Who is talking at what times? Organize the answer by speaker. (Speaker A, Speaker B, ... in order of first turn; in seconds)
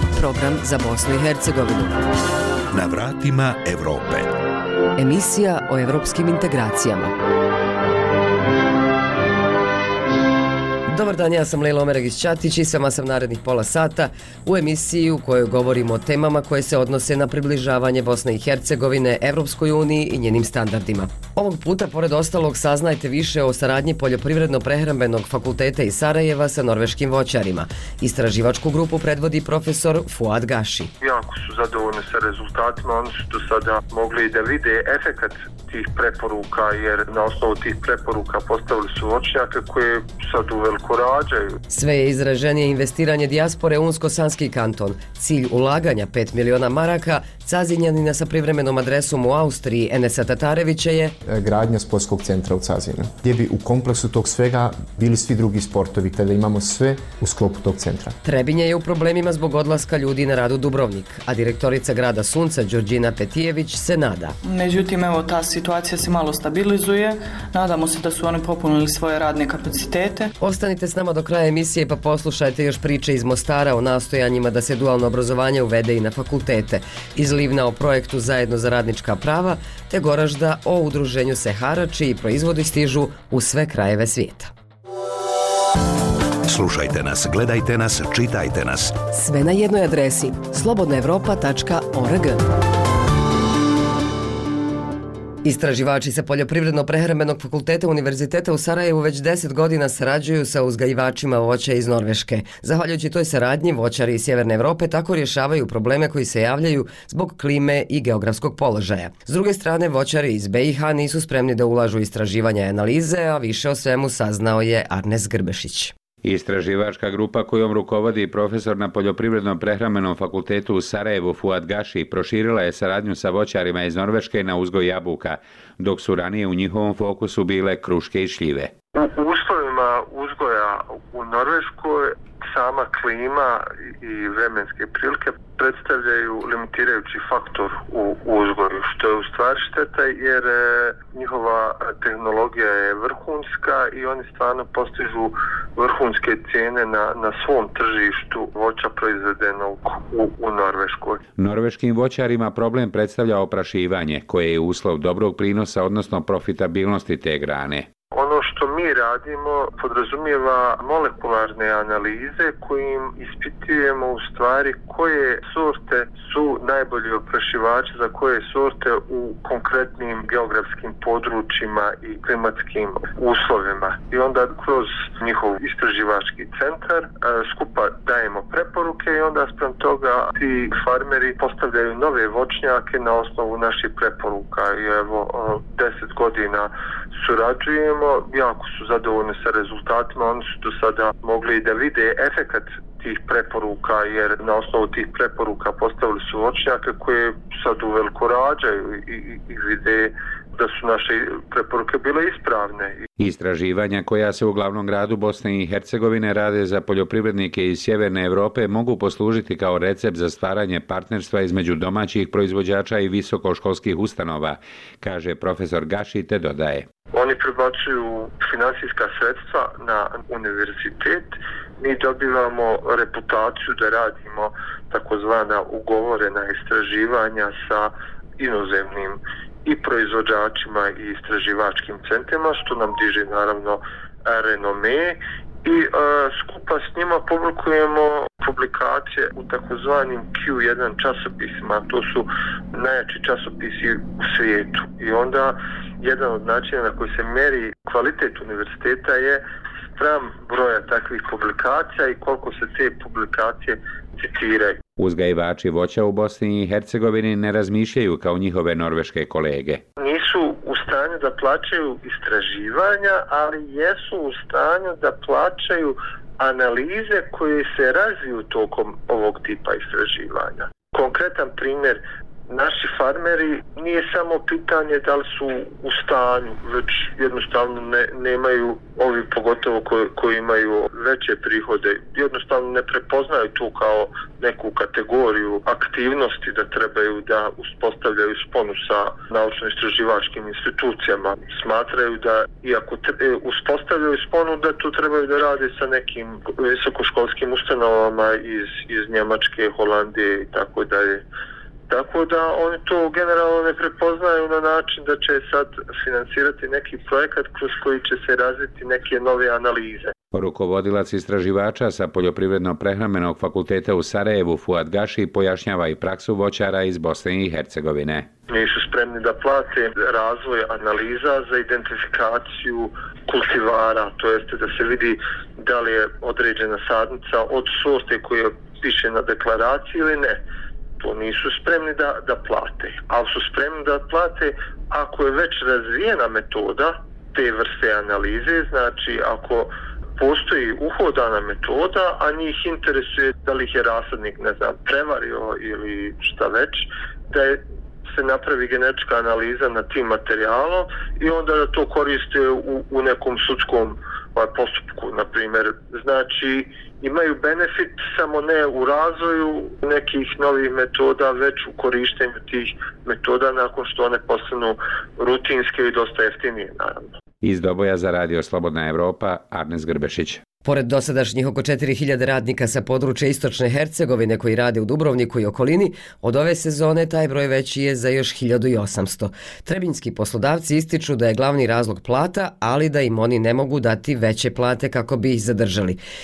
Speaker A: 0.1-1.9, 5.0-7.1, 10.9-30.9, 41.7-51.1, 58.2-64.3, 70.4-84.5, 89.1-92.4, 95.4-115.9, 370.6-386.0
Speaker B: 2.7-4.3, 86.5-88.9
Speaker C: 31.0-41.5, 128.9-151.2, 158.1-203.0, 217.1-249.4, 249.9-254.8, 260.0-301.2, 301.9-310.1, 318.5-330.4, 331.0-367.1
Speaker D: 51.2-58.1
Speaker E: 64.4-70.3
Speaker F: 116.2-128.7, 151.4-157.9, 203.2-216.9, 255.0-259.8, 310.3-318.3, 367.4-370.4